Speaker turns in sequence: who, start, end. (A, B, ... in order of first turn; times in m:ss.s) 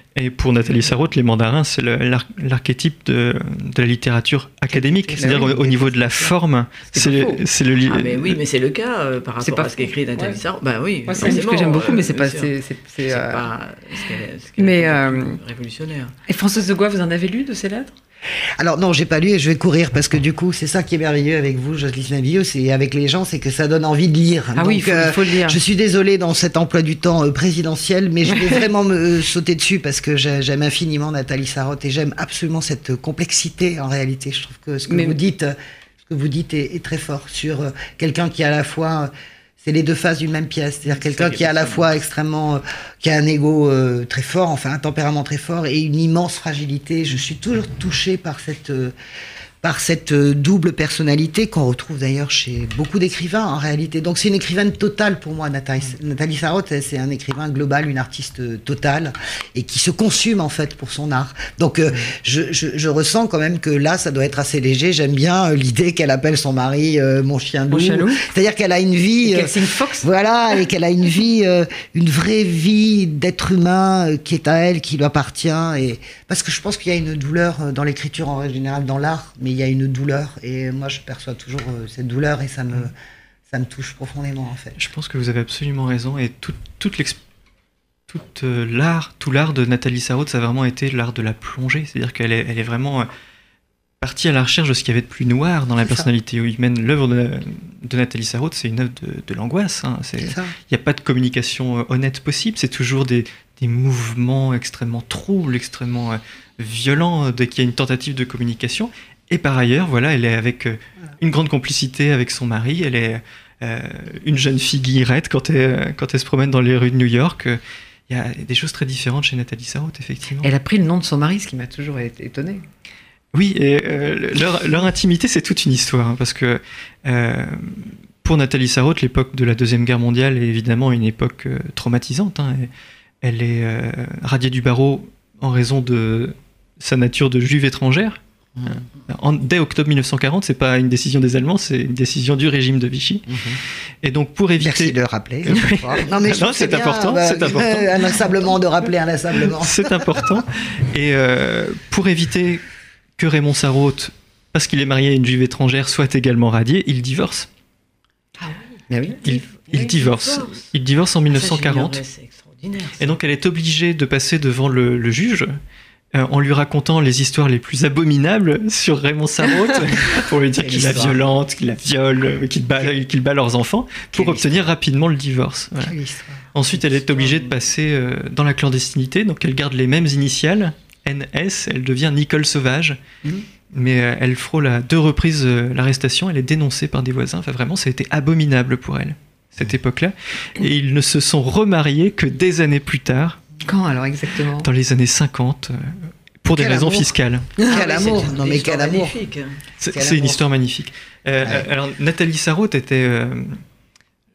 0:00.1-0:08.4 A
0:04.7-0:06.3 B
0:06.9-0:07.4 B
0:07.8-0:12.5 C
0:09.4-0:10.4 B
0:11.1-0:13.4 B
0:13.1-0:16.1 C
0:14.6-0:15.4 B
0:16.3-0:17.9 B
0:18.6-0:39.1 D
0:24.6-0:25.6 B
0:28.3-0:28.6 B
0:34.9-0:35.2 B
0:39.6-0:48.9 D
0:40.9-0:41.8 C
0:49.6-1:22.9 D
1:07.7-1:08.2 B
1:09.2-1:10.1 B
1:23.5-1:24.8 D
1:24.8-1:27.2 A
1:28.1-1:33.1 A
1:34.0-2:00.5 A
1:40.2-1:40.5 D
2:00.4-2:02.6 B
2:03.3-2:12.7 A
2:13.2-2:23.3 A
2:23.3-2:23.6 D
2:24.0-2:28.4 A
2:24.6-2:30.4 D
2:29.5-2:32.6 A
2:33.2-2:37.5 A
2:38.4-2:39.4 B
2:39.2-2:42.0 A
2:39.6-2:40.7 C
2:41.3-2:43.1 C
2:43.0-2:45.5 A
2:46.1-2:56.0 A
2:50.6-2:51.2 D
2:54.1-2:54.6 D
2:55.8-2:56.4 D
2:56.5-3:03.0 A
2:56.7-2:57.5 C
3:03.7-3:13.4 A
3:13.6-3:14.7 B
3:14.6-3:17.5 A
3:16.5-3:19.1 D
3:17.7-3:19.6 C
3:19.8-3:23.6 A
3:19.9-3:20.4 D